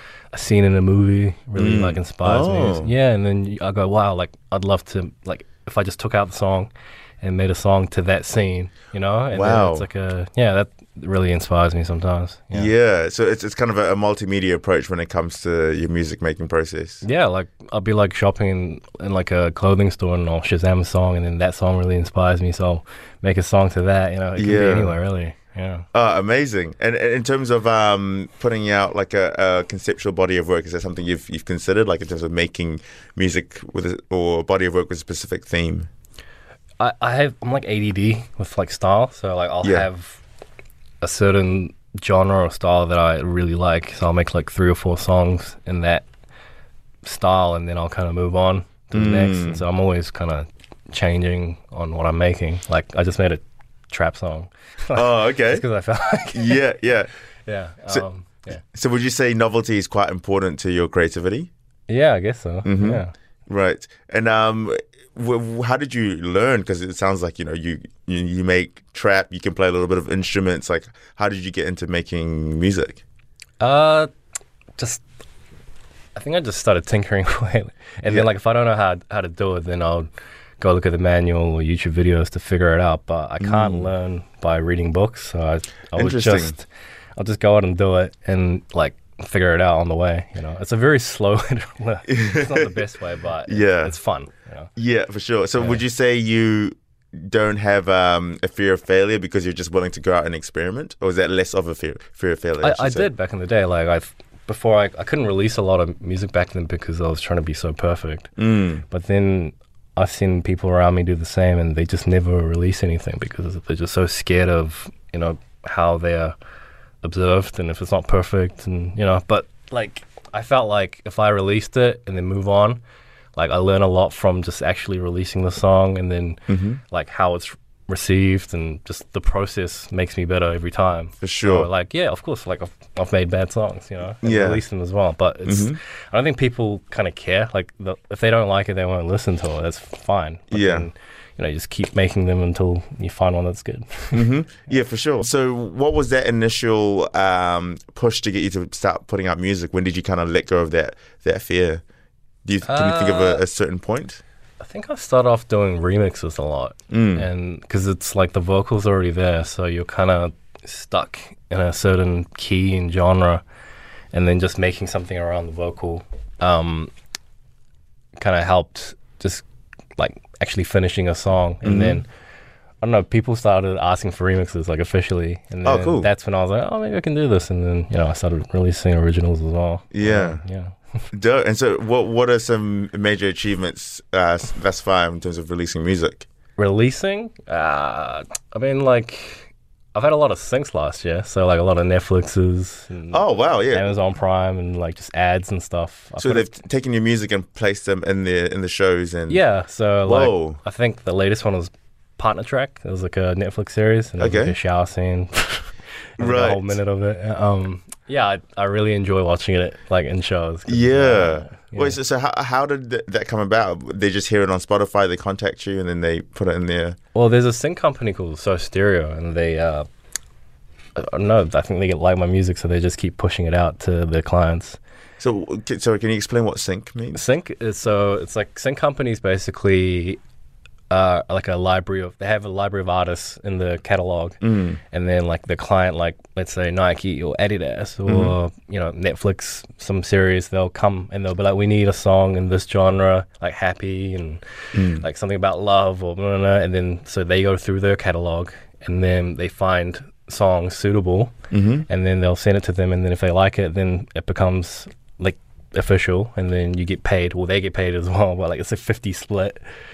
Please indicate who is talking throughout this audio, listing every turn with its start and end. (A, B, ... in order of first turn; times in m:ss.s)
0:00.3-0:12.7 A
0:01.6-0:02.9 B
0:09.3-0:09.9 B
0:12.5-0:17.0 B
0:17.0-0:25.9 A
0:24.4-0:25.0 B
0:25.9-0:35.9 B
0:36.8-0:40.2 A
0:39.6-0:39.9 B
0:41.0-0:46.0 A
0:47.0-0:56.7 A
0:48.9-0:49.7 B
0:54.9-0:55.6 B
0:56.3-0:57.1 B
0:57.5-0:58.6 A
0:57.9-1:01.5 B
1:01.9-1:03.1 A
1:02.6-1:13.0 B
1:13.6-1:14.1 A
1:14.8-1:15.0 A
1:16.2-1:34.7 A
1:23.4-1:23.9 B
1:26.0-1:26.6 B
1:32.1-1:32.9 B
1:33.5-1:34.0 B
1:34.8-1:43.1 B
1:42.6-1:48.3 A
1:48.4-1:48.8 B
1:48.9-1:56.4 A
1:57.0-2:02.8 A
2:03.4-2:24.3 A
2:06.5-2:06.8 B
2:11.2-2:11.7 B
2:14.2-2:14.6 B
2:15.5-2:15.8 B
2:20.5-2:20.9 B
2:24.1-2:31.8 B
2:32.4-2:34.2 B
2:32.6-2:33.4 A
2:34.6-2:43.4 A
2:36.9-2:37.3 B
2:44.1-2:46.9 A
2:48.2-2:49.4 A
2:50.0-2:52.1 A
2:51.6-2:52.0 B
2:52.8-3:00.8 A
2:55.6-2:56.1 B
2:59.9-3:00.4 B
3:01.1-3:06.3 B
3:06.6-3:16.5 A
3:13.1-3:13.9 B
3:16.2-3:19.4 B
3:19.3-3:32.0 A
3:20.0-3:20.6 B
3:24.2-3:24.6 B
3:26.2-3:26.8 B
3:30.7-3:37.0 B
3:37.1-3:39.9 A
3:41.0-3:44.8 A
3:45.2-3:47.2 B
3:47.1-3:50.2 A
3:50.9-3:54.4 A
3:54.4-3:54.8 B
3:54.9-4:11.4 A
3:58.1-3:58.4 B
4:04.7-4:05.0 B
4:11.5-4:11.9 B
4:11.9-4:19.6 A